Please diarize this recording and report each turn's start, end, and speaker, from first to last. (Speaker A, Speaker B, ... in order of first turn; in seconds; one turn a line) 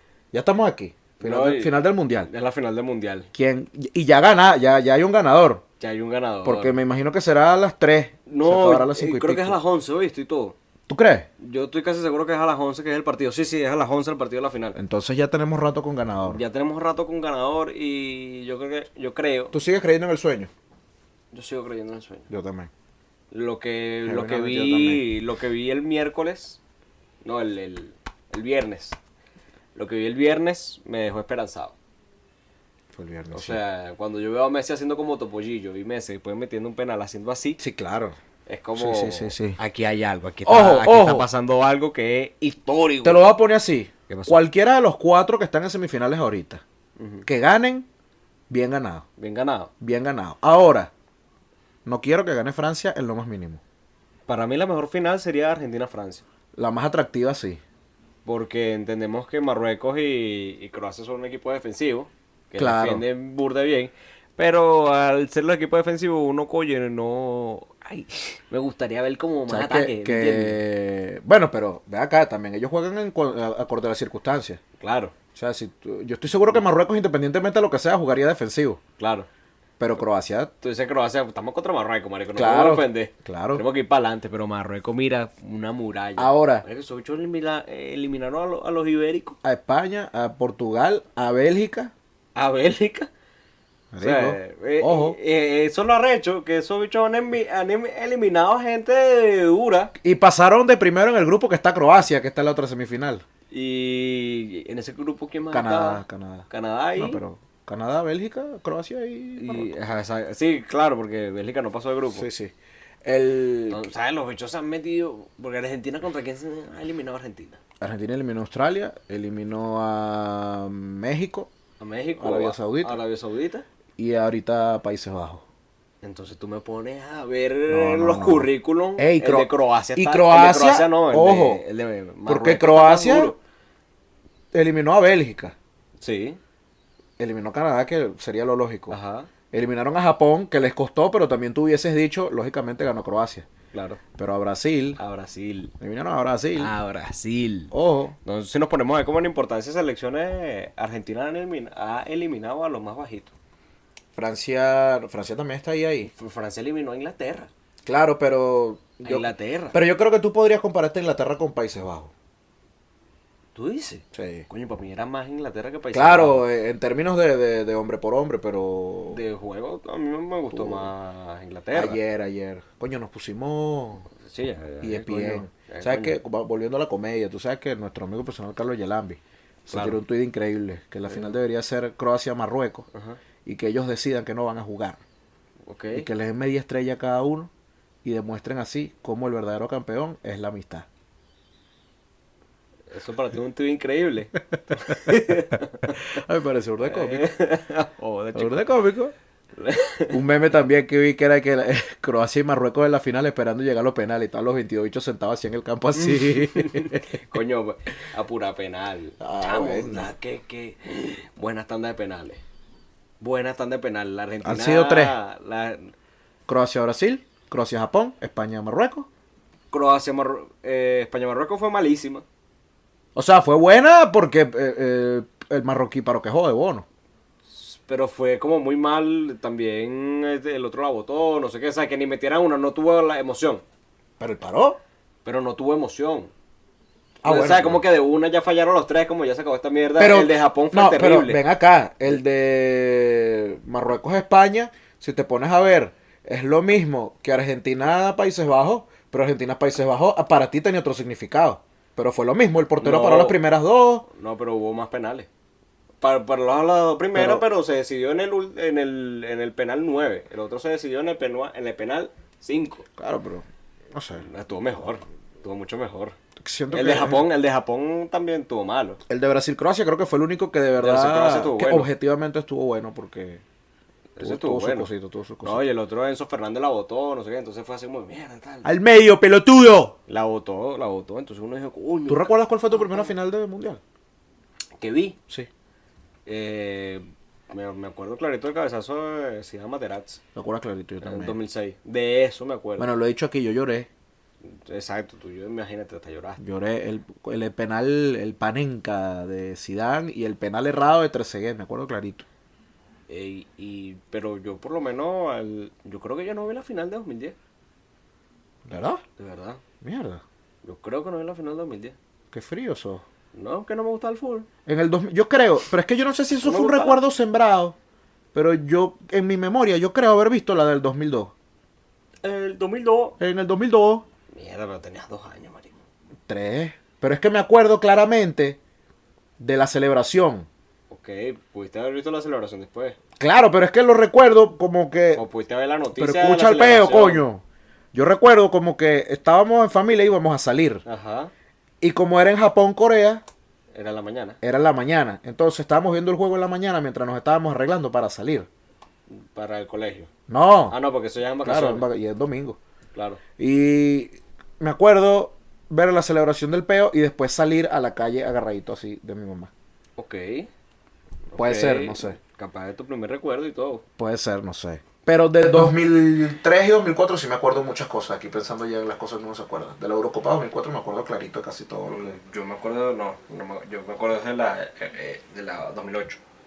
Speaker A: 0.3-2.3
Speaker B: 1.2-3.3
Speaker A: 3.3-5.6
Speaker B: 5.8-6.8
Speaker A: 6.4-9.6
Speaker B: 8.3-10.6
Speaker A: 10.9-11.3
Speaker B: 11.4-14.8
Speaker A: 14.8-16.4
Speaker B: 16.2-19.6
Speaker A: 19.5-20.5
Speaker B: 21.3-22.3
Speaker A: 22.3-22.7
Speaker B: 23.3-26.6
Speaker A: 24.0-25.1
Speaker B: 27.2-29.0
Speaker B: 29.8-31.8
Speaker A: 32.9-33.6
Speaker B: 33.3-37.6
Speaker A: 37.6-38.1
Speaker B: 38.5-43.3
Speaker A: 38.8-39.6
Speaker A: 40.5-41.3
Speaker A: 43.0-46.6
Speaker B: 44.1-44.4
Speaker B: 47.0-47.3
Speaker A: 47.2-47.9
Speaker A: 48.5-49.0
Speaker B: 49.2-49.7
Speaker A: 49.8-50.9
Speaker A: 51.9-53.6
Speaker B: 54.3-56.2
Speaker A: 56.6-57.6
Speaker B: 58.2-70.6
Speaker A: 62.6-63.0
Speaker A: 69.5-74.6
Speaker B: 74.8-75.1
Speaker A: 75.3-78.8
Speaker B: 79.0-79.3
Speaker A: 79.8-80.5
Speaker B: 80.6-89.4
Speaker A: 82.3-83.6
Speaker A: 86.2-86.7
Speaker A: 89.4-91.9
Speaker B: 92.4-93.1
Speaker A: 93.9-95.2
Speaker B: 94.0-99.9
Speaker A: 100.0-103.2
Speaker B: 103.5-107.2
Speaker A: 105.5-109.7
Speaker B: 109.4-112.3
Speaker A: 112.1-112.5
Speaker A: 113.0-113.9
Speaker B: 113.7-117.6
Speaker A: 117.8-121.5
Speaker B: 121.8-123.7
Speaker A: 122.2-123.0
Speaker A: 124.0-125.4
Speaker B: 126.0-133.4
Speaker A: 127.7-131.6
Speaker A: 132.3-133.3
Speaker A: 134.5-135.6
Speaker B: 136.0-136.4
Speaker A: 137.2-139.0
Speaker B: 138.9-139.3
Speaker A: 139.5-143.5
Speaker B: 143.7-144.0
Speaker A: 144.2-145.0
Speaker B: 145.0-145.7
Speaker A: 145.8-146.7
Speaker B: 146.6-147.7
Speaker A: 147.7-148.2
Speaker B: 148.2-153.3
Speaker A: 154.2-156.1
Speaker B: 156.0-157.5
Speaker A: 157.9-162.1
Speaker B: 159.0-159.8
Speaker B: 163.6-166.4
Speaker A: 164.1-164.5
Speaker A: 165.9-169.2
Speaker B: 169.1-172.0
Speaker A: 170.5-170.9
Speaker A: 171.7-174.1
Speaker B: 174.2-176.2
Speaker A: 174.8-182.9
Speaker B: 179.7-180.0
Speaker B: 181.1-181.4
Speaker B: 182.9-183.2
Speaker A: 183.4-185.0
Speaker B: 185.7-186.1
Speaker A: 185.9-187.5
Speaker A: 188.0-190.9
Speaker B: 192.9-196.2
Speaker A: 194.7-195.4
Speaker A: 196.1-197.3
Speaker B: 196.8-198.8
Speaker A: 198.3-199.1
Speaker B: 199.6-200.2
Speaker A: 200.1-207.2
Speaker B: 206.0-212.4
Speaker A: 209.2-210.1
Speaker B: 213.2-215.9
Speaker A: 214.4-215.2
Speaker A: 216.5-219.1
Speaker B: 219.7-222.2
Speaker A: 223.2-226.8
Speaker B: 227.5-233.6
Speaker A: 234.2-234.8
Speaker B: 235.2-236.3
Speaker A: 237.2-237.8
Speaker B: 237.2-241.4
Speaker A: 240.0-254.1
Speaker B: 252.8-253.4
Speaker B: 254.1-255.3
Speaker B: 256.0-262.9
Speaker A: 257.1-257.4
Speaker A: 263.0-264.2
Speaker B: 264.2-266.1
Speaker A: 266.4-267.3
Speaker B: 266.7-269.0
Speaker A: 269.1-273.4
Speaker B: 270.8-271.9
Speaker B: 274.2-274.9
Speaker A: 274.2-275.7
Speaker B: 275.4-278.8
Speaker A: 278.6-279.9
Speaker B: 280.1-283.1
Speaker A: 282.1-283.8
Speaker B: 284.8-285.2
Speaker B: 286.3-290.2
Speaker A: 290.4-291.4
Speaker B: 291.0-292.9
Speaker A: 292.8-293.9
Speaker B: 294.4-296.4
Speaker A: 296.4-302.2
Speaker B: 303.1-307.4
Speaker A: 308.7-309.0
Speaker B: 309.2-309.6
Speaker A: 309.8-310.2
Speaker B: 310.6-312.0
Speaker A: 312.3-313.0
Speaker B: 313.3-314.5
Speaker A: 314.7-317.8
Speaker B: 316.4-317.0
Speaker A: 318.3-321.3
Speaker B: 322.2-323.2
Speaker A: 323.2-324.1
Speaker B: 324.3-325.8
Speaker A: 326.3-328.6
Speaker A: 329.4-330.5
Speaker B: 330.9-333.0
Speaker A: 333.2-335.2
Speaker B: 335.1-337.2
Speaker A: 335.9-337.4
Speaker A: 337.9-340.8
Speaker B: 340.9-341.3
Speaker A: 341.8-343.2
Speaker B: 343.7-344.4
Speaker A: 344.4-348.5
Speaker B: 349.1-350.1
Speaker A: 350.3-350.8
Speaker B: 350.7-351.9
Speaker A: 351.4-352.6
Speaker B: 352.9-353.2
Speaker A: 353.4-359.5
Speaker B: 360.0-360.5
Speaker B: 361.3-363.8
Speaker A: 361.4-362.2
Speaker A: 364.0-372.2
Speaker B: 371.9-376.2